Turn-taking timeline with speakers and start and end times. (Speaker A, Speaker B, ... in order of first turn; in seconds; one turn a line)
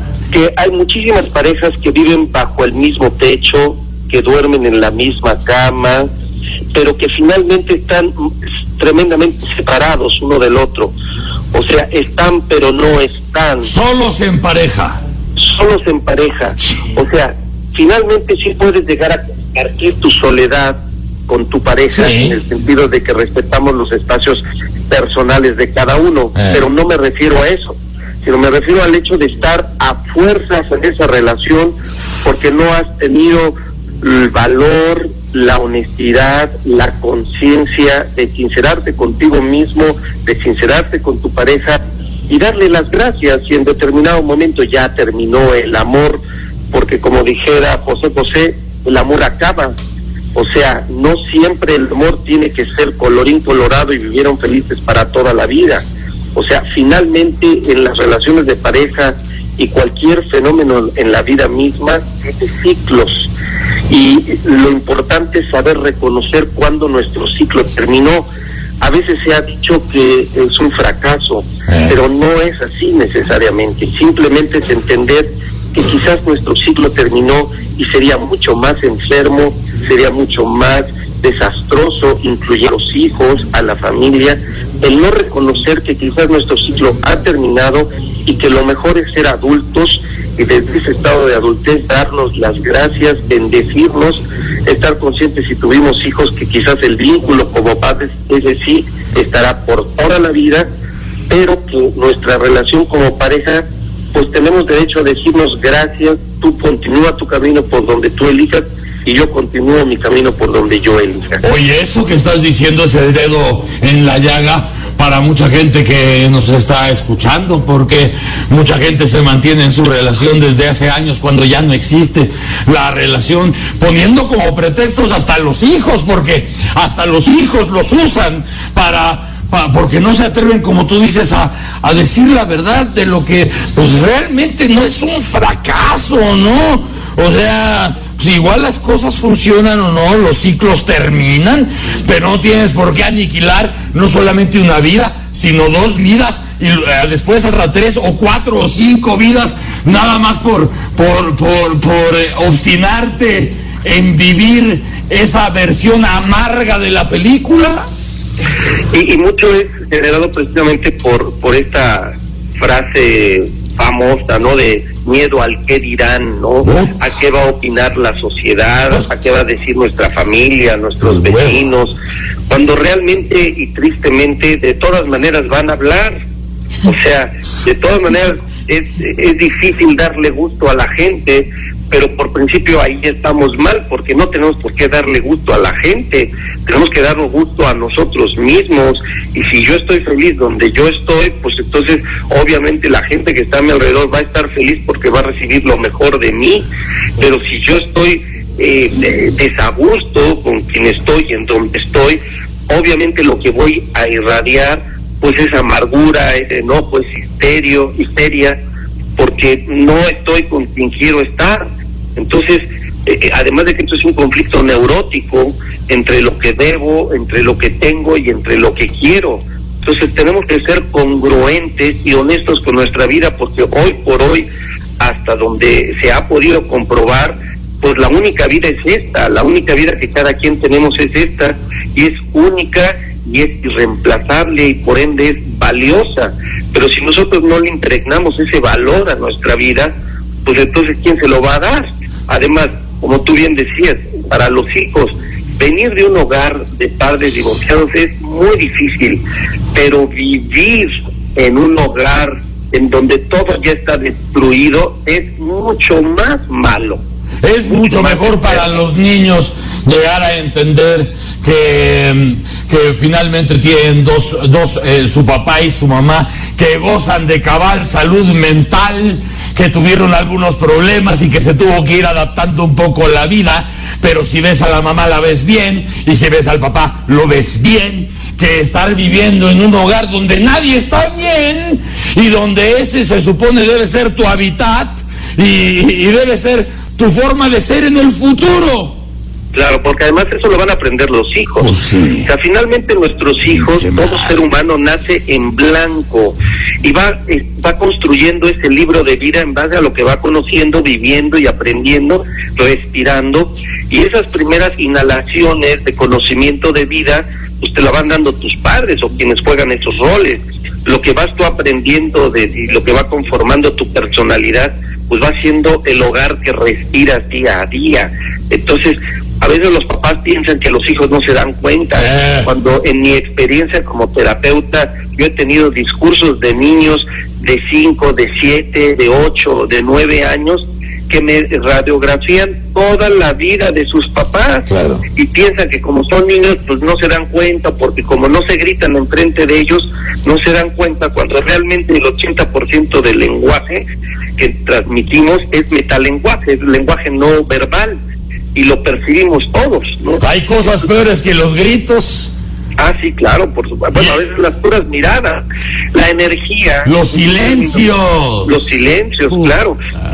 Speaker A: 0.3-6.1
Speaker A: 6.7-8.1
Speaker A: 8.8-10.9
Speaker A: 11.5-13.7
Speaker B: 13.6-15.0
Speaker A: 15.4-49.7
Speaker B: 21.9-22.4
Speaker B: 26.3-26.6
Speaker A: 50.3-55.8
Speaker A: 56.3-63.3
Speaker A: 63.9-68.2
Speaker A: 68.8-100.7
Speaker A: 101.3-111.4
Speaker B: 111.4-157.8
Speaker A: 158.9-171.9
Speaker B: 166.6-167.0
Speaker B: 171.0-171.6
Speaker A: 172.5-176.2
Speaker A: 176.8-196.7
Speaker A: 197.2-208.6
Speaker A: 209.2-211.7
Speaker A: 212.2-224.4
Speaker A: 225.0-239.9
Speaker A: 240.4-249.2
Speaker A: 249.7-257.0
Speaker B: 257.4-288.9
Speaker A: 257.6-258.7
Speaker A: 289.5-291.7
Speaker B: 291.6-292.3
Speaker A: 292.2-343.8
Speaker B: 293.5-294.4
Speaker B: 322.0-322.5
Speaker B: 334.7-335.0
Speaker A: 344.4-348.0
Speaker A: 348.5-350.2
Speaker B: 350.2-352.3
Speaker A: 352.8-357.9
Speaker B: 356.8-358.5
Speaker A: 358.4-359.8